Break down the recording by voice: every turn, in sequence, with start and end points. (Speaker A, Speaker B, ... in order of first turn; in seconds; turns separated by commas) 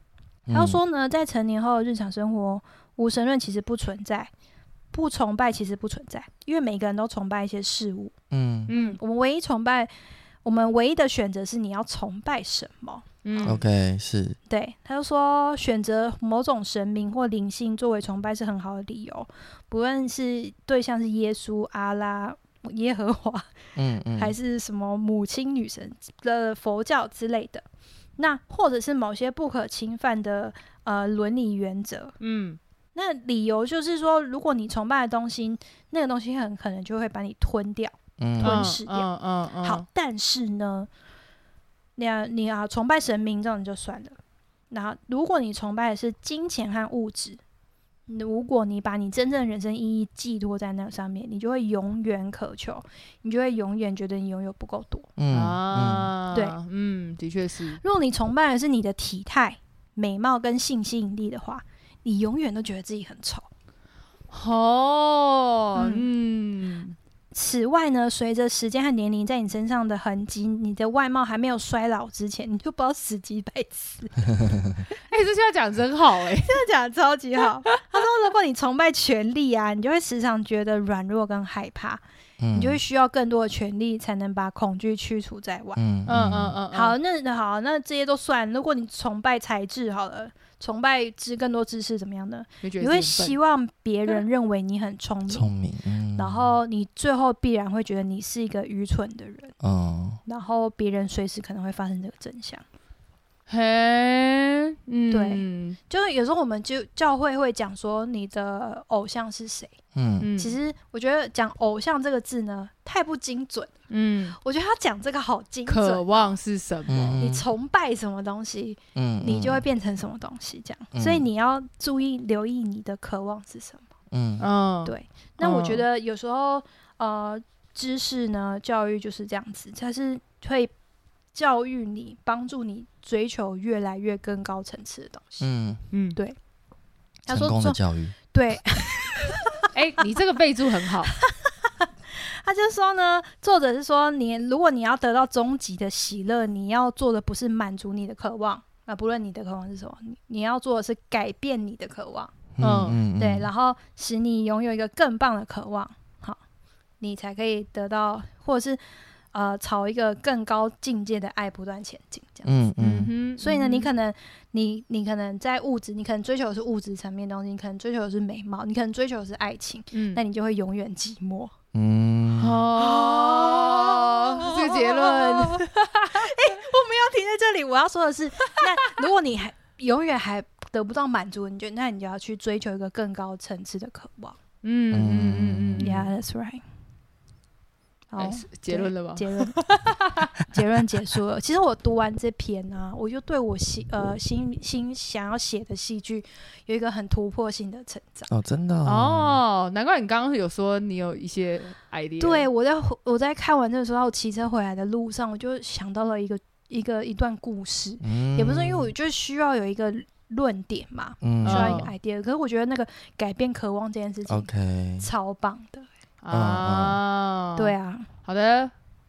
Speaker A: 0.5-0.8, Speaker B: 0.5-4.3, Speaker B: 4.9-8.1, Speaker A: 8.3-8.7, Speaker C: 8.7-9.0, Speaker B: 8.7-9.9, Speaker B: 10.4-13.6, Speaker C: 13.2-13.6, Speaker A: 13.4-14.4, Speaker B: 14.5-23.5, Speaker A: 23.8-24.3, Speaker B: 24.1-27.6, Speaker B: 28.2-32.1, Speaker C: 32.2-32.6, Speaker B: 32.9-39.1, Speaker A: 38.2-38.7, Speaker C: 38.4-39.8, Speaker B: 39.6-40.9, Speaker B: 42.0-44.2, Speaker B: 44.7-47.4, Speaker B: 48.1-55.1, Speaker A: 55.2-56.1, Speaker C: 55.3-57.8, Speaker B: 56.3-56.6, Speaker B: 57.8-63.5, Speaker C: 64.3-67.0, Speaker B: 65.8-66.1, Speaker B: 67.3-74.3, Speaker C: 75.1-76.6, Speaker B: 76.4-82.0, Speaker A: 82.4-82.8, Speaker B: 82.5-85.8, Speaker A: 85.8-86.6, Speaker C: 86.1-87.0, Speaker B: 86.7-95.4, Speaker C: 92.6-93.4, Speaker A: 95.3-96.6, Speaker B: 96.2-99.5, Speaker A: 99.6-100.2, Speaker B: 100.2-102.6, Speaker C: 103.5-105.8, Speaker B: 105.1-109.7, Speaker A: 109.9-110.3, Speaker C: 110.2-110.6, Speaker B: 110.4-113.7, Speaker C: 113.9-114.4, Speaker B: 114.4-116.3, Speaker C: 115.7-117.2, Speaker A: 116.9-117.4, Speaker B: 117.2-123.8, Speaker A: 119.0-119.7, Speaker A: 120.9-121.3, Speaker A: 124.1-124.5, Speaker C: 124.4-125.8, Speaker B: 124.8-130.7, Speaker B: 131.3-135.5, Speaker A: 135.4-135.8, Speaker C: 135.9-136.2, Speaker B: 137.3-137.8, Speaker A: 137.3-138.1, Speaker B: 138.3-139.7, Speaker C: 139.7-141.1, Speaker B: 141.1-152.3, Speaker A: 152.6-153.5, Speaker C: 152.6-153.0, Speaker B: 153.2-156.4, Speaker B: 157.0-158.8, Speaker B: 159.3-162.7, Speaker A: 162.4-163.1, Speaker C: 162.8-163.9, Speaker B: 163.4-171.5, Speaker C: 169.9-170.2, Speaker A: 171.7-172.7, Speaker C: 172.4-176.4, Speaker B: 172.8-184.4, Speaker C: 178.6-179.0, Speaker C: 184.6-186.1, Speaker A: 184.9-185.9, Speaker B: 185.8-186.6, Speaker B: 188.1-189.6, Speaker C: 188.2-190.3, Speaker B: 190.4-198.3, Speaker A: 198.3-199.4, Speaker C: 198.8-202.5, Speaker B: 202.2-215.8, Speaker A: 208.0-208.9, Speaker A: 211.2-211.9, Speaker C: 211.4-211.9, Speaker A: 214.3-215.1, Speaker C: 216.2-218.7, Speaker A: 216.3-217.0, Speaker B: 217.6-218.1